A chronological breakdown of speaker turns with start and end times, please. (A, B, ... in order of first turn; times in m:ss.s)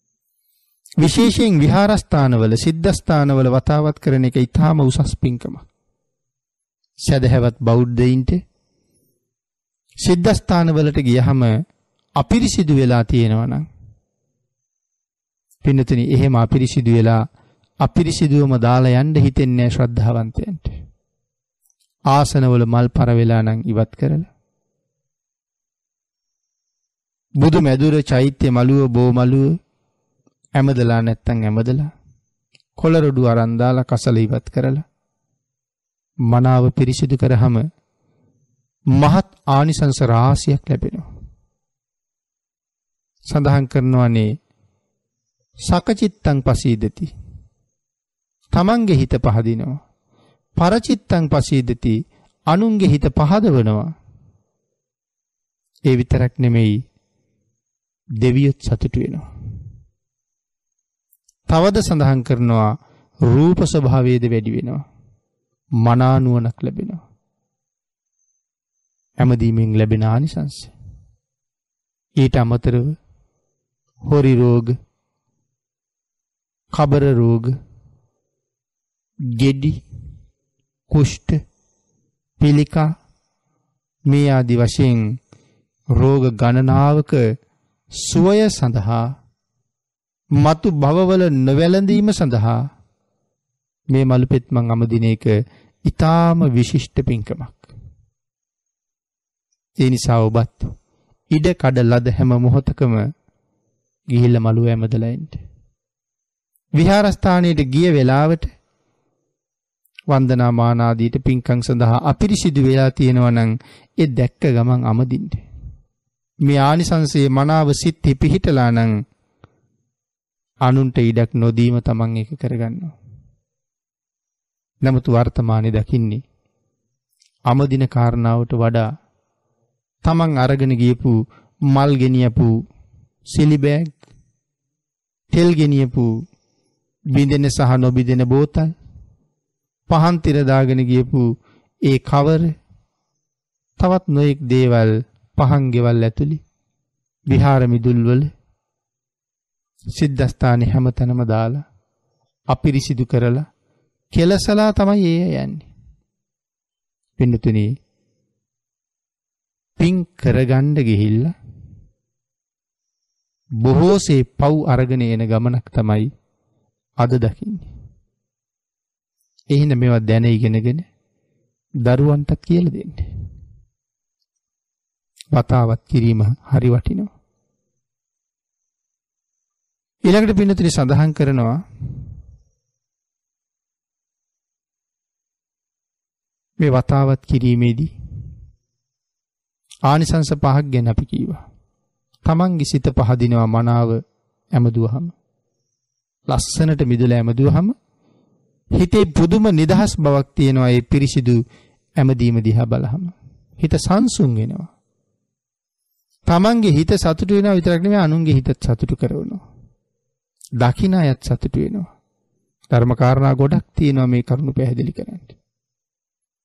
0:01.0-0:05.7 A
0:07.0-0:08.4 A
0:10.0-0:11.5 A
0:12.2-0:13.6 A
0:15.6-0:17.2 A
0:17.8-0:20.7 A
0:22.1-0:24.3 A
0:27.4-0:29.6 A
0:30.6-0:31.9 A
0:32.8-0:34.8 A
0:36.3-0:37.6 A
0:39.0-0:41.1 A
0:43.3-0:44.3 A
0:45.7-0:47.1 A
0:48.5-0:49.8 A
0:50.6-0:52.0 A
0:52.5-0:53.9 A
0:55.9-0:56.8 A
0:58.2-0:59.2 A
1:01.5-1:02.7 A
1:03.3-1:04.8 A
1:05.8-1:07.0 A
1:09.2-1:10.7 A
1:12.2-1:13.0 A
1:14.0-1:14.7 A
1:16.7-1:17.5 A
1:19.3-1:19.8 A
1:20.9-1:21.4 A
1:22.4-1:22.9 A
1:24.1-1:25.0 A
1:26.0-1:27.2 A
1:28.0-1:29.1 A
1:30.4-1:32.6 A
1:33.9-1:35.3 A
1:35.8-1:37.7 A
1:39.8-1:40.7 A
1:41.3-1:43.0 A
1:44.1-1:45.4 A
1:46.8-1:48.5 A
1:50.1-1:55.4 A
1:56.4-1:58.9 A
2:00.7-2:02.9 A
2:04.8-2:06.2 A
2:07.5-2:08.8 A
2:10.0-2:11.2 A
2:11.7-2:12.5 A
2:13.3-2:14.0 A
2:15.3-2:16.1 A
2:17.1-2:18.7 A
2:19.9-2:21.2 A
2:21.8-2:22.5 A
2:23.8-2:26.4 A
2:27.3-2:28.3 A
2:29.9-2:31.6 A
2:32.5-2:33.4 A
2:34.1-2:35.6 A
2:37.2-2:37.7 A
2:39.8-2:41.3 A
2:43.6-2:46.1 A
2:47.0-2:47.7 A
2:49.5-2:50.8 A
2:51.8-2:53.1 A
2:55.3-2:57.1 A
3:00.0-3:01.6 A
3:06.6-3:07.9 A
3:09.8-3:11.4 A
3:12.2-3:14.0 A
3:14.5-3:15.1 A
3:16.3-3:17.7 A
3:18.8-3:21.4 A
3:22.0-3:24.7 A
3:26.3-3:29.4 A
3:30.6-3:31.9 A
3:32.7-3:35.4 A